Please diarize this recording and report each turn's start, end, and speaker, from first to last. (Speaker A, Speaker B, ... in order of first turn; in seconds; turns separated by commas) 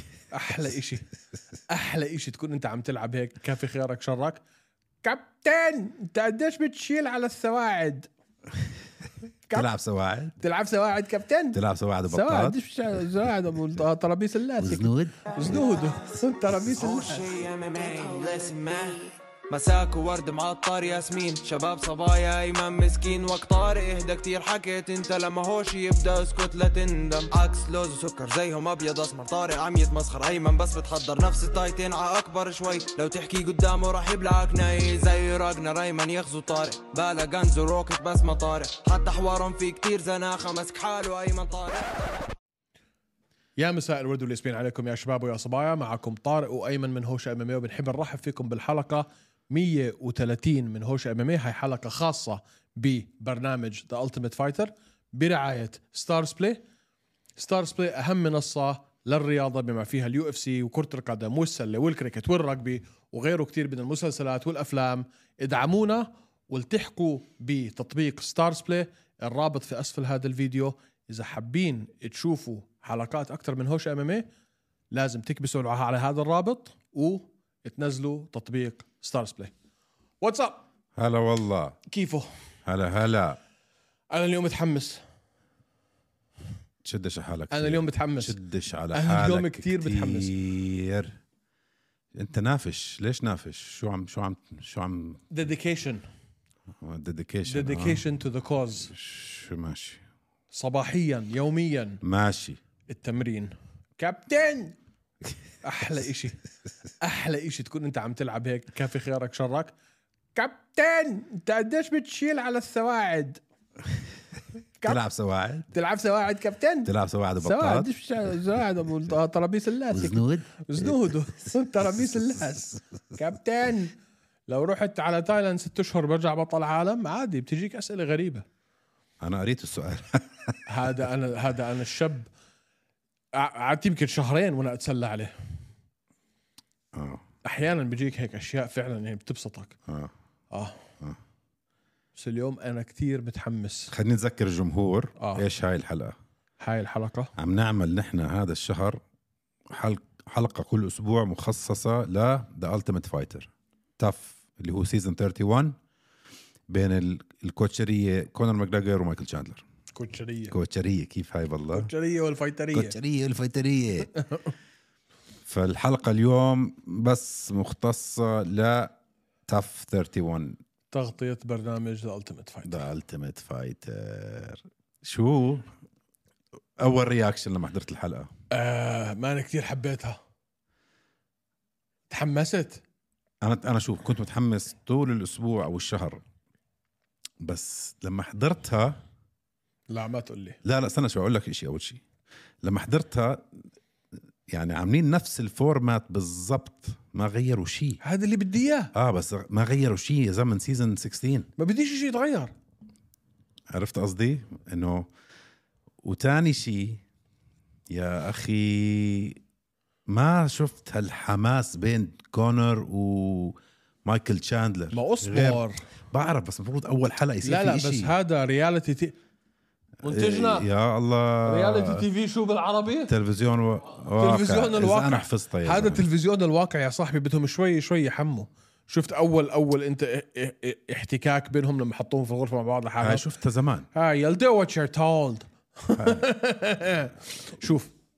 Speaker A: 0.3-1.1, Speaker A: 1.7-4.4, Speaker A: 5.0-8.1, Speaker B: 9.5-10.4, Speaker A: 10.4-11.6, Speaker B: 11.5-13.2, Speaker A: 12.1-17.3, Speaker B: 14.6-15.6, Speaker C: 16.8-42.0, Speaker A: 43.6-56.6, Speaker A: 57.4-74.3, Speaker A: 74.9-79.5, Speaker A: 80.2-80.6, Speaker B: 81.0-81.8, Speaker A: 81.9-82.3, Speaker B: 82.7-83.4, Speaker A: 84.1-85.0, Speaker B: 86.8-91.2, Speaker A: 87.5-88.4, Speaker A: 88.9-90.3, Speaker B: 92.2-95.2, Speaker A: 95.3-96.0, Speaker B: 96.8-98.0, Speaker A: 97.5-98.9, Speaker B: 98.9-100.0, Speaker A: 100.5-102.0, Speaker B: 102.0-102.6, Speaker A: 102.9-104.8, Speaker A: 105.6-106.4, Speaker A: 107.0-109.7, Speaker A: 110.3-113.4, Speaker B: 114.8-115.7, Speaker A: 115.7-123.9, Speaker B: 116.9-117.9, Speaker B: 119.9-121.0, Speaker A: 124.5-128.4, Speaker B: 129.2-130.6, Speaker A: 130.7-132.3, Speaker A: 133.3-135.3, Speaker B: 136.9-137.2, Speaker A: 137.4-139.8, Speaker A: 140.5-140.8, Speaker A: 142.2-143.9, Speaker B: 143.9-146.2, Speaker A: 145.2-145.4, Speaker A: 146.6-147.3, Speaker B: 147.4-149.0, Speaker B: 149.7-155.8, Speaker B: 156.7-159.7, Speaker A: 159.9-160.6, Speaker B: 160.5-161.9, Speaker A: 161.7-162.9, Speaker B: 162.7-164.1, Speaker A: 164.1-164.5, Speaker B: 165.5-168.9, Speaker B: 169.5-170.6, Speaker A: 170.9-172.9, Speaker B: 172.7-175.7, Speaker B: 176.8-178.3, Speaker A: 178.5-180.2, Speaker A: 182.1-182.8, Speaker B: 183.4-186.2, Speaker B: 187.4-189.0, Speaker A: 189.9-190.6, Speaker B: 190.6-192.0, Speaker B: 192.6-193.5, Speaker B: 194.5-198.0, Speaker A: 198.0-198.9, Speaker B: 198.9-201.5, Speaker A: 201.6-202.5, Speaker B: 203.7-205.1, Speaker B: 206.0-207.0, Speaker B: 207.9-209.4, Speaker B: 210.1-218.1, Speaker A: 214.9-215.8, Speaker A: 217.4-219.1, Speaker A: 220.0-220.7, Speaker B: 220.1-222.0, Speaker A: 221.4-223.1, Speaker B: 223.1-226.1, Speaker A: 224.2-233.3, Speaker B: 233.0-233.9, Speaker A: 233.9-237.9, Speaker B: 236.0-236.2